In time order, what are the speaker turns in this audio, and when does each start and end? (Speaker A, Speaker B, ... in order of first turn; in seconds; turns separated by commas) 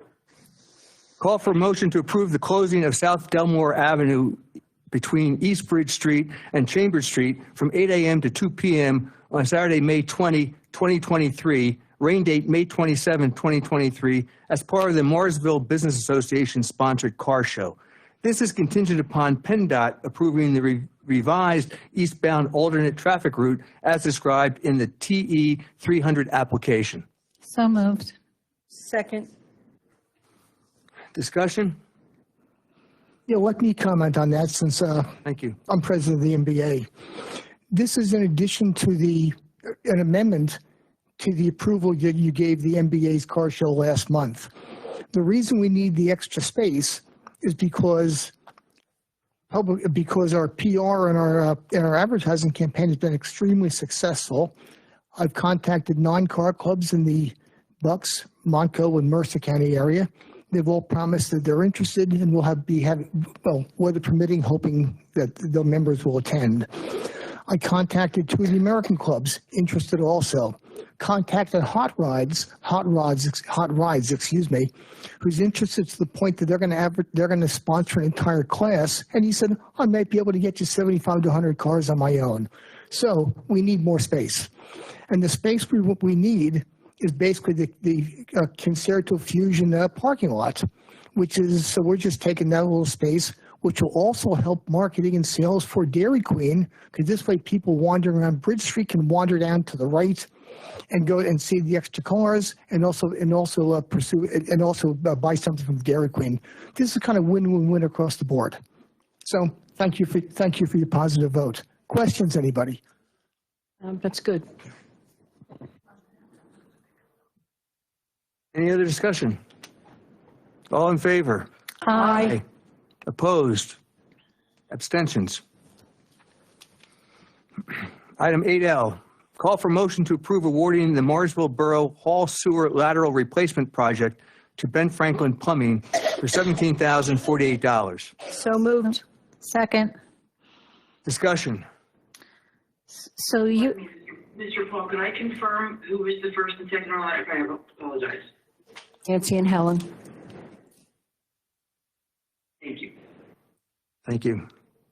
Speaker A: 1.2-4.4, Speaker A: 4.9-27.0, Speaker B: 27.4-28.1, Speaker C: 28.7-29.3, Speaker A: 31.1-31.8, Speaker D: 33.3-35.1, Speaker A: 35.2-35.6, Speaker D: 35.7-36.9, Speaker D: 37.7-40.6, Speaker D: 41.2-44.5, Speaker D: 45.1-48.3, Speaker D: 49.5-54.5, Speaker D: 55.1-84.5, Speaker D: 85.1-100.3, Speaker D: 100.9-108.6, Speaker D: 109.2-112.8, Speaker C: 113.8-114.5, Speaker A: 118.5-119.4, Speaker A: 120.7-122.4, Speaker B: 121.9-122.3, Speaker C: 121.9-122.4, Speaker A: 123.0-123.8, Speaker A: 124.7-125.4, Speaker A: 128.2-138.1, Speaker C: 138.3-139.0, Speaker B: 139.4-139.9, Speaker A: 141.1-141.6, Speaker B: 142.9-143.8, Speaker E: 144.3-148.2, Speaker C: 149.1-149.9, Speaker E: 152.6-152.9, Speaker A: 154.1-154.4